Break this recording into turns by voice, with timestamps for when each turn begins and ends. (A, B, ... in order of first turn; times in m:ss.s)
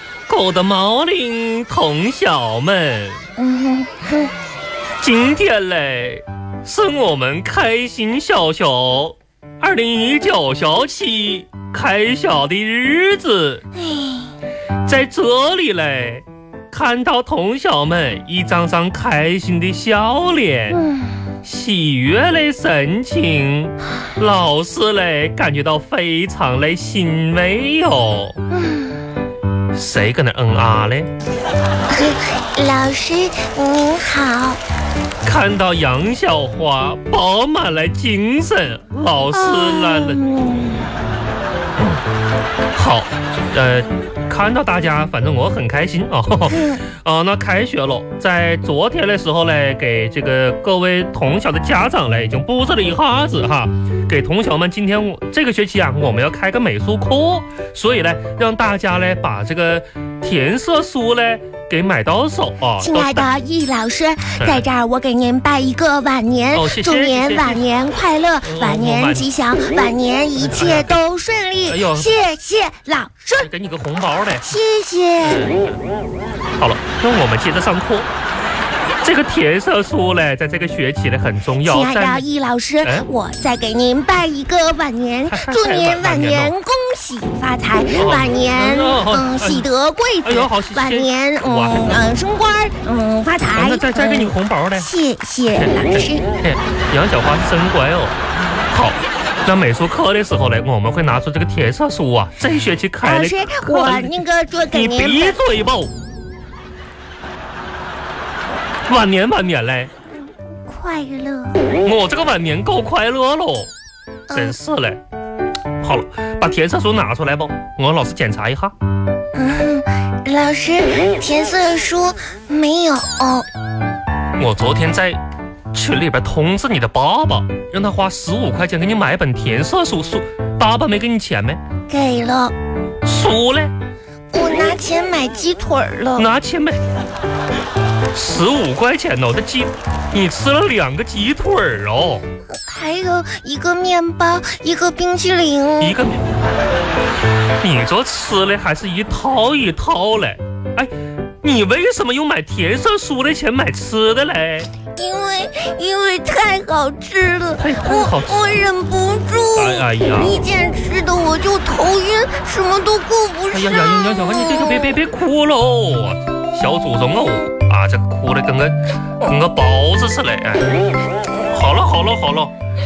0:00.3-0:03.2 A
0:03.4-0:04.3 B
0:05.0-0:13.6 A
0:13.8-0:14.3 B
0:14.8-0:20.8 A
0:20.7-0:21.3 B
0:21.4-0:28.4 A
0:28.5-0:29.1 B
0:29.7-0:31.1 A
0:31.9-0:34.6 B
0:35.2-0:40.2 A
0:39.3-0:41.0 B
0:41.8-0:42.0 A
0:42.7-1:03.3 A
0:46.5-0:46.8 B
1:02.8-1:13.5 B
1:04.4-1:04.6 A
1:06.5-1:07.6 A
1:08.4-1:09.3 A
1:10.4-1:11.0 A
1:11.7-1:12.1 A
1:13.4-1:14.5 A
1:14.4-1:15.5 B
1:15.2-1:15.8 A
1:16.6-1:18.1 A
1:19.0-1:22.2 A
1:21.6-1:36.2 B
1:25.3-1:26.5 A
1:28.0-1:29.6 A
1:30.2-1:32.0 A
1:33.5-1:34.9 A
1:35.5-1:38.2 A
1:38.7-1:45.9 A
1:43.0-1:45.4 B
1:48.9-1:49.9 A
1:50.6-1:51.6 B
1:51.8-1:53.7 A
1:54.3-1:54.6 B
1:54.3-1:55.0 A
1:55.8-1:58.7 A
1:59.3-2:03.5 B
2:04.4-2:05.2 A
2:05.7-2:11.6 A
2:11.9-2:12.5 B
2:13.0-2:13.7 A
2:14.3-2:16.3 B
2:16.2-2:16.8 A
2:18.1-2:22.2 A
2:22.5-2:26.0 B
2:25.8-2:26.3 A
2:27.6-2:34.7 A
2:34.9-2:45.0 B
2:37.6-2:38.6 A
2:39.6-2:40.4 A
2:43.5-2:50.7 A
2:51.5-2:52.5 A